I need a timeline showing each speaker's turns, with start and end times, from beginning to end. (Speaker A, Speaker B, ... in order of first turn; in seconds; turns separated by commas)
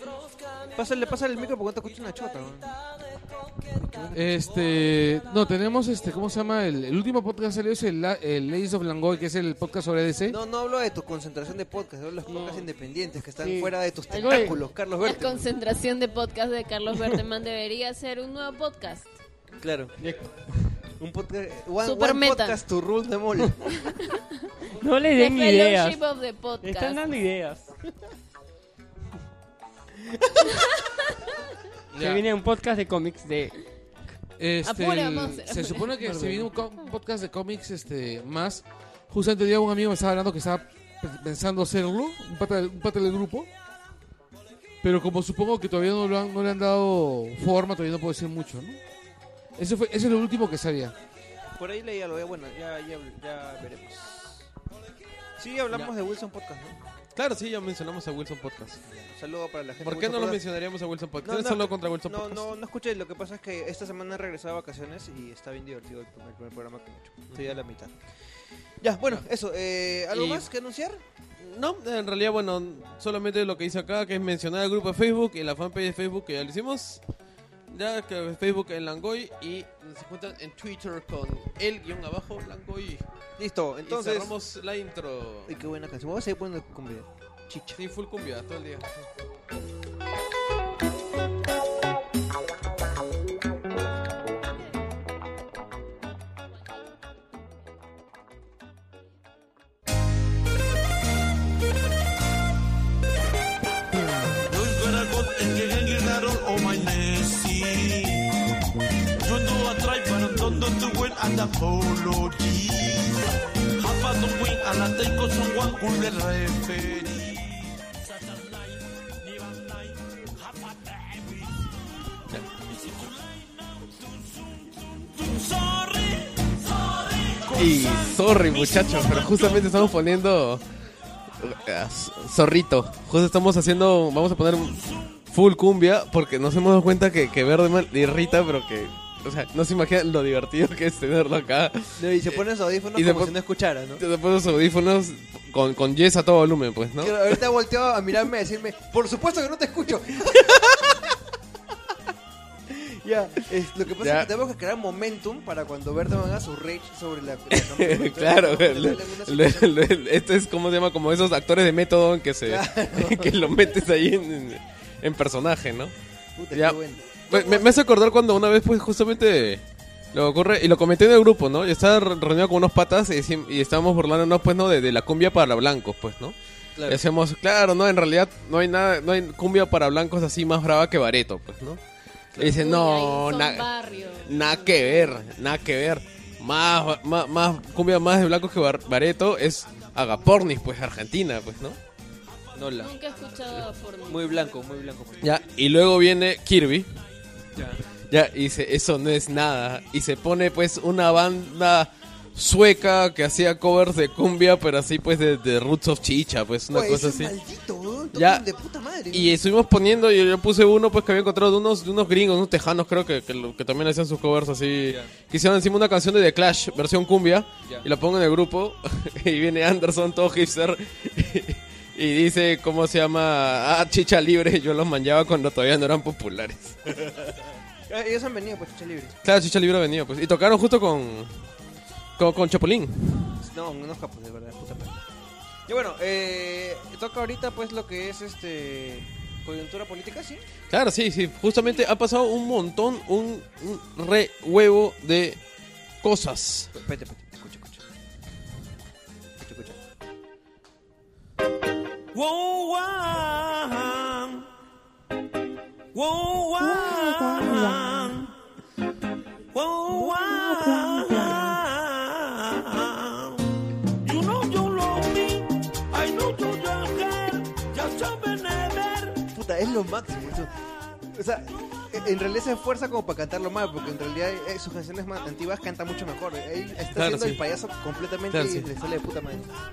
Speaker A: 0.8-2.8, Speaker A: 3.8-4.2, Speaker B: 4.1-10.4, Speaker A: 10.3-15.4, Speaker C: 12.3-12.7, Speaker C: 13.4-14.6, Speaker D: 14.2-14.5, Speaker D: 15.0-19.2, Speaker A: 19.6-19.9, Speaker C: 20.0-20.4, Speaker A: 21.0-23.7, Speaker D: 21.8-22.6, Speaker D: 23.8-24.4, Speaker C: 24.8-26.0, Speaker D: 25.1-27.0, Speaker C: 26.6-27.7, Speaker B: 31.9-32.2, Speaker C: 32.0-33.6, Speaker B: 34.4-43.5, Speaker D: 34.6-35.9, Speaker C: 35.9-36.5, Speaker B: 44.8-48.8, Speaker B: 49.6-50.9, Speaker A: 51.6-54.5, Speaker A: 55.4-56.8, Speaker E: 57.1-58.8, Speaker A: 58.9-60.4, Speaker E: 59.8-62.5, Speaker A: 61.2-68.0, Speaker A: 68.8-71.0, Speaker E: 70.1-70.5, Speaker E: 71.4-77.0, Speaker E: 77.7-83.0, Speaker A: 83.4-84.3, Speaker E: 83.8-85.5, Speaker A: 85.5-87.8, Speaker E: 87.8-89.1, Speaker F: 104.4-108.4, Speaker F: 109.2-121.7, Speaker F: 122.6-129.8, Speaker E: 127.5-130.6, Speaker E: 131.4-142.4, Speaker A: 142.0-144.0, Speaker E: 142.9-143.3, Speaker E: 144.0-147.4, Speaker A: 147.0-151.0, Speaker A: 152.7-159.8, Speaker E: 154.0-154.3, Speaker E: 157.5-165.9, Speaker A: 162.4-163.6, Speaker A: 166.4-167.8, Speaker E: 166.5-169.6, Speaker E: 170.1-181.8, Speaker A: 176.8-177.0, Speaker E: 182.4-183.7, Speaker D: 182.5-185.2, Speaker E: 184.2-191.8, Speaker A: 192.5-192.9, Speaker D: 192.8-194.5, Speaker A: 194.1-195.2, Speaker E: 195.2-197.0, Speaker A: 197.5-197.8, Speaker E: 198.1-207.3, Speaker A: 206.7-209.4, Speaker E: 208.1-208.4, Speaker E: 209.1-227.1, Speaker A: 227.9-229.1, Speaker E: 229.2-231.4, Speaker E: 232.2-233.3, Speaker A: 233.4-235.0, Speaker A: 235.7-240.4, Speaker E: 240.7-245.4, Speaker E: 246.0-246.7, Speaker A: 246.8-247.8, Speaker A: 249.4-249.8, Speaker F: 252.1-254.4, Speaker F: 255.9-258.3, Speaker F: 259.5-263.4, Speaker F: 264.0-269.3, Speaker A: 269.3-270.5, Speaker A: 271.1-279.6, Speaker E: 276.9-277.4, Speaker E: 278.3-278.7